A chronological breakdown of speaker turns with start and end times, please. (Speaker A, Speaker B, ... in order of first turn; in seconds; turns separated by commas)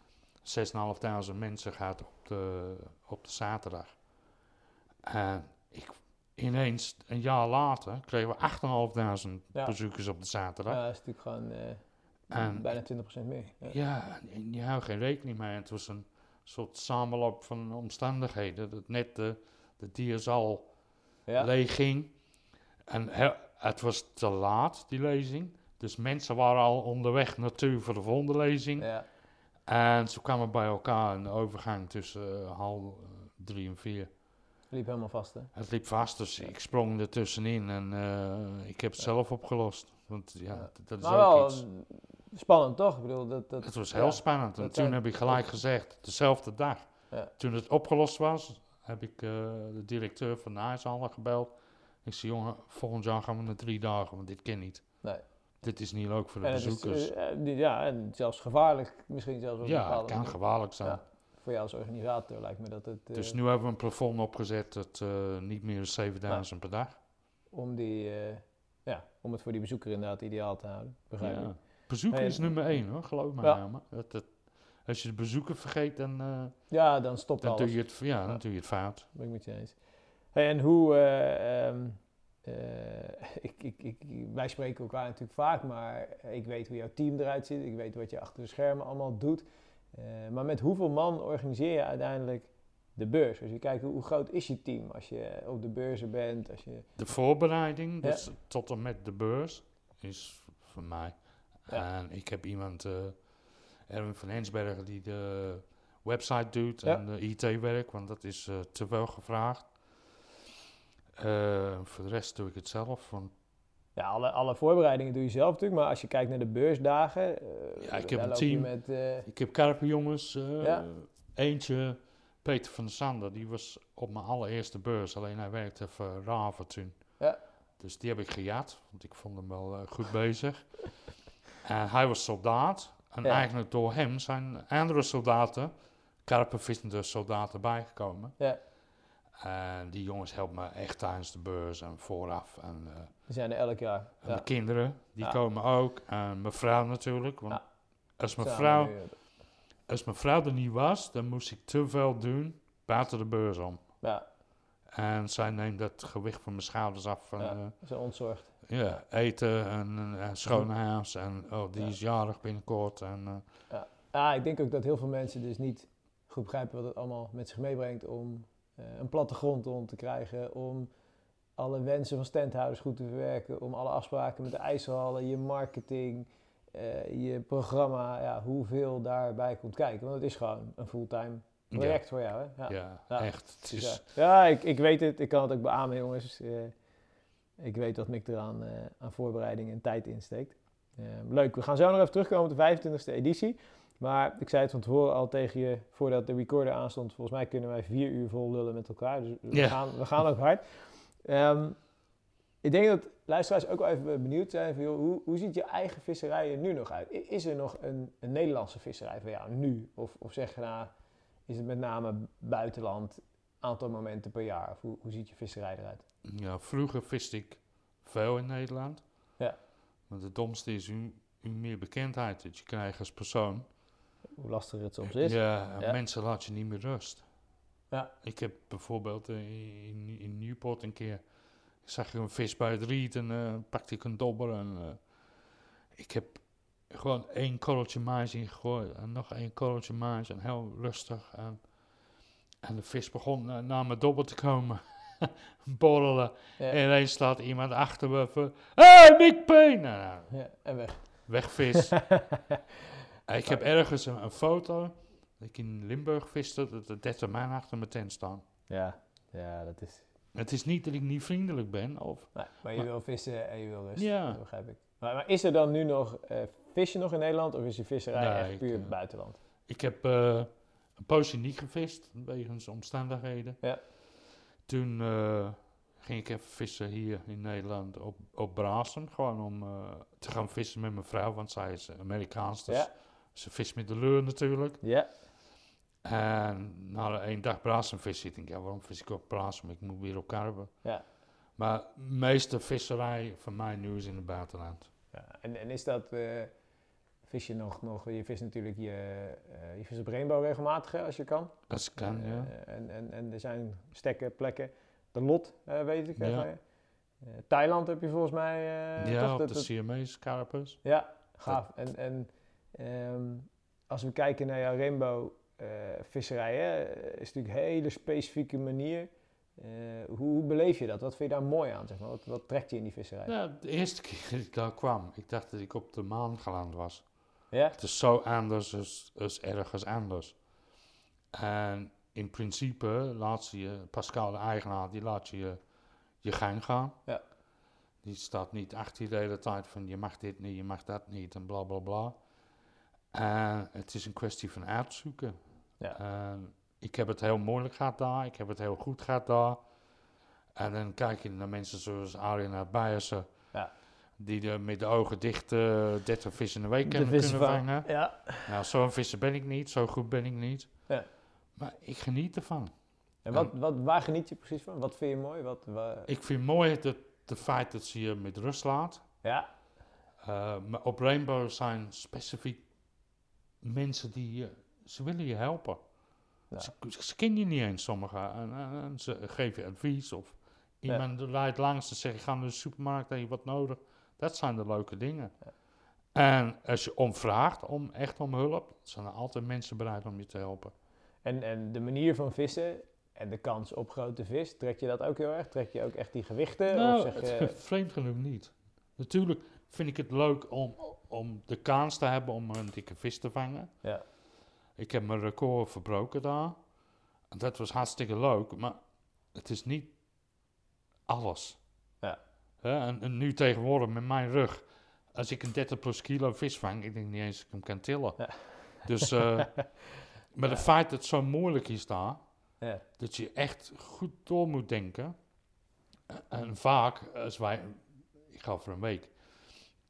Speaker A: 0.3-4.0, Speaker A: 5.0-10.8, Speaker B: 10.7-13.8, Speaker A: 12.3-20.7, Speaker A: 21.3-22.2, Speaker A: 22.9-28.9, Speaker B: 28.8-29.1, Speaker A: 29.6-34.1, Speaker B: 34.7-35.5, Speaker A: 35.5-41.6, Speaker B: 40.5-45.5, Speaker A: 43.6-55.0, Speaker A: 55.6-57.1, Speaker B: 56.4-63.4, Speaker A: 59.6-61.0, Speaker A: 63.1-67.0, Speaker B: 67.5-72.9, Speaker A: 71.2-76.7, Speaker B: 76.7-78.4, Speaker A: 77.4-79.1, Speaker B: 79.0-96.9, Speaker A: 97.0-110.0, Speaker A: 111.2-113.3, Speaker B: 114.0-119.3, Speaker A: 117.8-127.3, Speaker B: 120.6-120.8, Speaker A: 127.8-138.4, Speaker A: 139.3-143.1, Speaker B: 143.3-144.5, Speaker A: 144.2-147.6, Speaker A: 148.2-149.2, Speaker B: 148.4-149.2, Speaker A: 149.8-153.9, Speaker A: 154.9-157.8, Speaker B: 157.4-158.5, Speaker A: 158.6-163.4, Speaker B: 163.7-170.9, Speaker B: 171.6-186.7, Speaker A: 181.7-184.0, Speaker B: 187.6-201.8, Speaker A: 199.5-199.8, Speaker B: 202.6-210.9, Speaker B: 211.5-216.0, Speaker A: 216.2-219.0, Speaker A: 220.1-223.7, Speaker B: 224.3-226.0, Speaker A: 225.1-227.2, Speaker A: 228.2-231.2, Speaker A: 231.8-235.1, Speaker A: 235.9-241.7, Speaker A: 242.6-250.3, Speaker B: 250.3-252.6, Speaker A: 251.2-252.2, Speaker A: 253.3-258.4, Speaker B: 258.7-260.1, Speaker A: 260.3-262.9, Speaker B: 262.3-269.4, Speaker A: 263.9-264.4, Speaker A: 268.1-284.8, Speaker B: 284.8-285.1, Speaker A: 286.0-290.9, Speaker A: 291.5-294.9, Speaker B: 295.1-296.5, Speaker B: 297.2-306.6, Speaker A: 301.7-302.5, Speaker A: 306.2-306.5, Speaker B: 307.2-309.7, Speaker A: 309.0-310.8, Speaker B: 310.8-323.3, Speaker A: 323.3-330.4, Speaker B: 327.5-327.8, Speaker A: 331.3-335.6, Speaker A: 336.2-337.0, Speaker A: 338.0-342.2, Speaker A: 343.1-345.4, Speaker A: 345.9-349.6, Speaker A: 350.6-353.6, Speaker A: 354.1-360.9, Speaker B: 356.8-358.5, Speaker A: 361.5-362.7, Speaker B: 363.2-366.1, Speaker A: 366.1-369.0, Speaker A: 370.2-372.6, Speaker A: 373.6-375.8, Speaker A: 376.6-385.4, Speaker A: 386.1-390.7, Speaker B: 391.2-397.6, Speaker A: 396.7-403.7, Speaker A: 404.8-406.6, Speaker A: 407.3-409.9, Speaker A: 411.1-411.6, Speaker A: 412.6-422.2, Speaker A: 423.0-425.1, Speaker A: 426.1-429.2